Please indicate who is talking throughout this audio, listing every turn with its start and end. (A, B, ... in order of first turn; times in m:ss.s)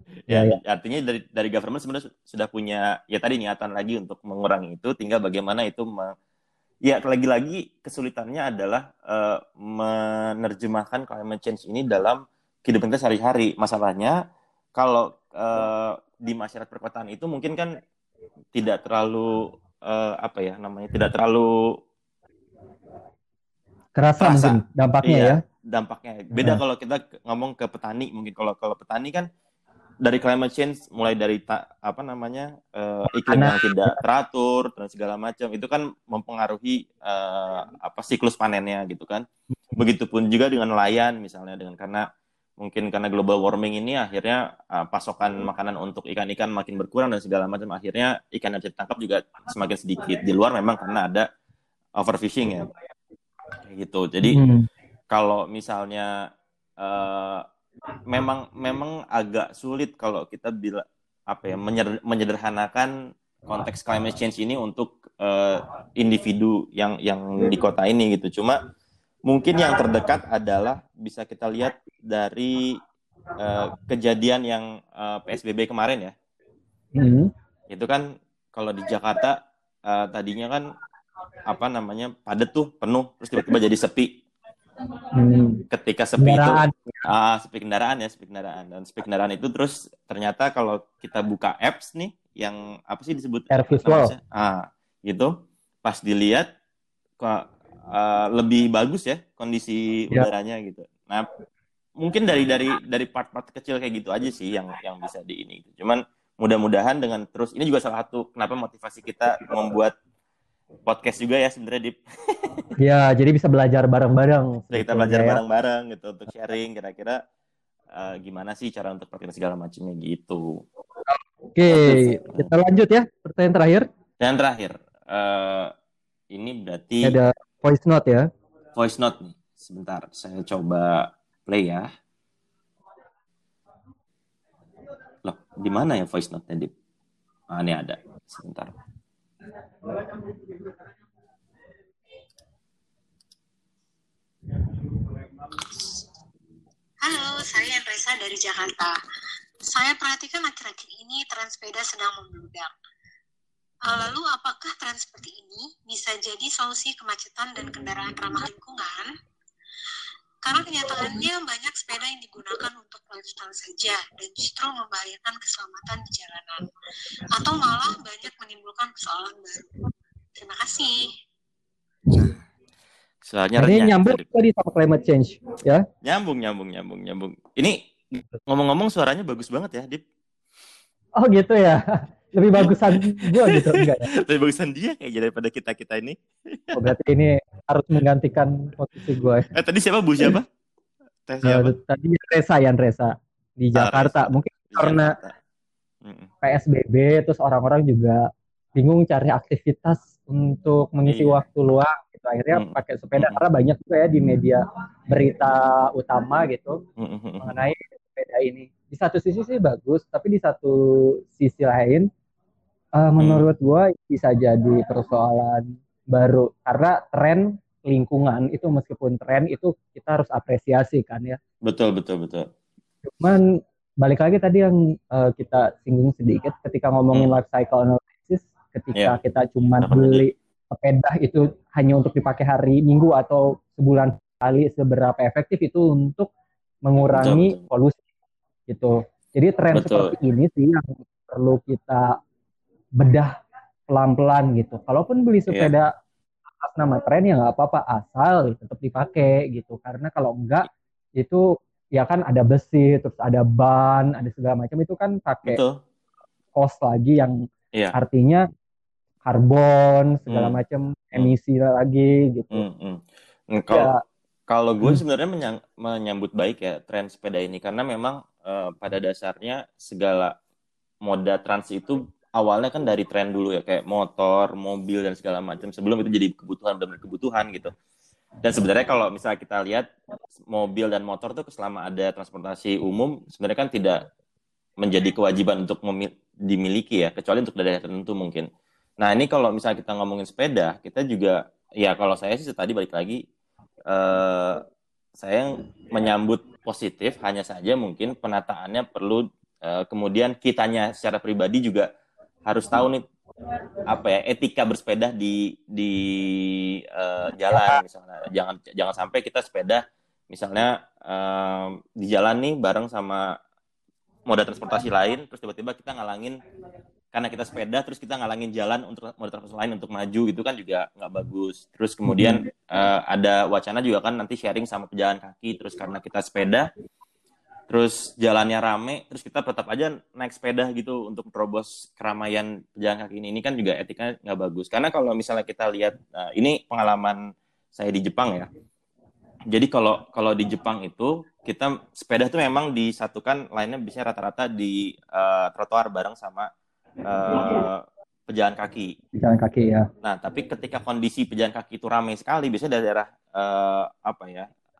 0:00.3-0:06.1 A
0:00.3-0:00.6 B
0:06.8-0:14.2 A
0:14.8-0:17.8 A
0:18.5-0:21.7 A
0:23.9-0:25.4 B
0:24.2-0:29.3 A
0:26.3-0:26.6 B
0:30.0-0:39.2 A
0:33.1-0:34.0 B
0:39.8-0:42.1 A
0:42.6-0:51.3 A
0:52.0-0:52.7 A
0:53.6-0:54.4 A
0:54.3-0:54.7 B
0:55.1-0:56.1 A
0:56.8-0:57.4 A
0:58.1-1:02.9 A
1:03.5-1:08.6 A
1:09.3-1:12.8 A
1:13.4-1:16.1 A
1:17.0-1:17.3 B
1:17.7-1:20.7 A
1:21.4-1:24.2 A
1:25.1-1:25.6 B
1:25.7-1:35.3 A
1:26.2-1:27.0 B
1:33.5-1:34.1 B
1:35.8-1:36.5 A
1:37.2-1:41.3 A
1:42.0-1:49.9 A
1:50.8-1:52.7 A
1:52.8-1:55.4 B
1:54.7-1:57.2 A
1:57.9-2:00.6 A
2:01.1-2:03.9 B
2:01.7-2:02.5 A
2:04.2-2:05.7 A
2:06.3-2:07.2 A
2:07.0-2:08.3 B
2:08.7-2:11.9 A
2:15.2-2:16.7 A
2:17.5-2:18.7 A
2:27.0-2:28.9 C
2:29.7-2:32.7 C
2:33.8-2:39.1 C
2:40.4-2:46.6 C
2:47.3-2:49.6 C
2:50.4-2:51.1 C
2:53.2-2:54.2 A
2:53.6-2:55.8 B
2:56.0-3:00.0 A
3:01.2-3:04.1 B
3:02.6-3:06.9 A
3:06.7-3:09.5 B
3:09.5-3:10.4 A
3:11.3-3:11.7 A
3:11.4-3:15.1 B
3:13.7-3:15.3 A
3:16.0-3:16.3 A
3:16.4-3:26.8 B
3:21.0-3:21.4 A
3:22.5-3:23.4 A
3:27.0-3:27.6 A
3:27.4-3:32.1 B
3:33.0-3:41.4 B
3:33.2-3:33.4 A
3:41.6-3:42.5 A
3:43.0-3:56.3 B
3:49.8-3:50.3 A
3:56.8-3:58.0 B
3:57.1-3:57.6 A
3:58.7-4:02.2 B
3:59.7-4:00.1 A
4:03.0-4:03.3 B
4:03.9-4:05.9 B
4:06.6-4:15.6 B
4:15.4-4:15.8 A
4:16.5-4:18.4 B
4:19.2-4:22.6 B
4:20.3-4:20.6 A
4:22.5-4:23.9 A
4:23.7-4:24.0 B
4:24.5-4:30.3 A
4:31.0-4:37.7 A
4:38.4-4:44.0 A
4:44.8-4:48.5 A
4:49.0-4:53.2 A
4:53.9-4:54.6 A
4:55.2-5:01.9 A
5:02.4-5:03.0 A
5:03.9-5:13.3 A
5:14.2-5:16.4 A
5:17.1-5:26.7 A
5:22.0-5:22.4 B
5:27.7-5:38.5 A
5:39.5-5:46.5 A
5:47.0-5:49.0 A
5:49.1-5:49.9 B
5:50.0-5:54.5 A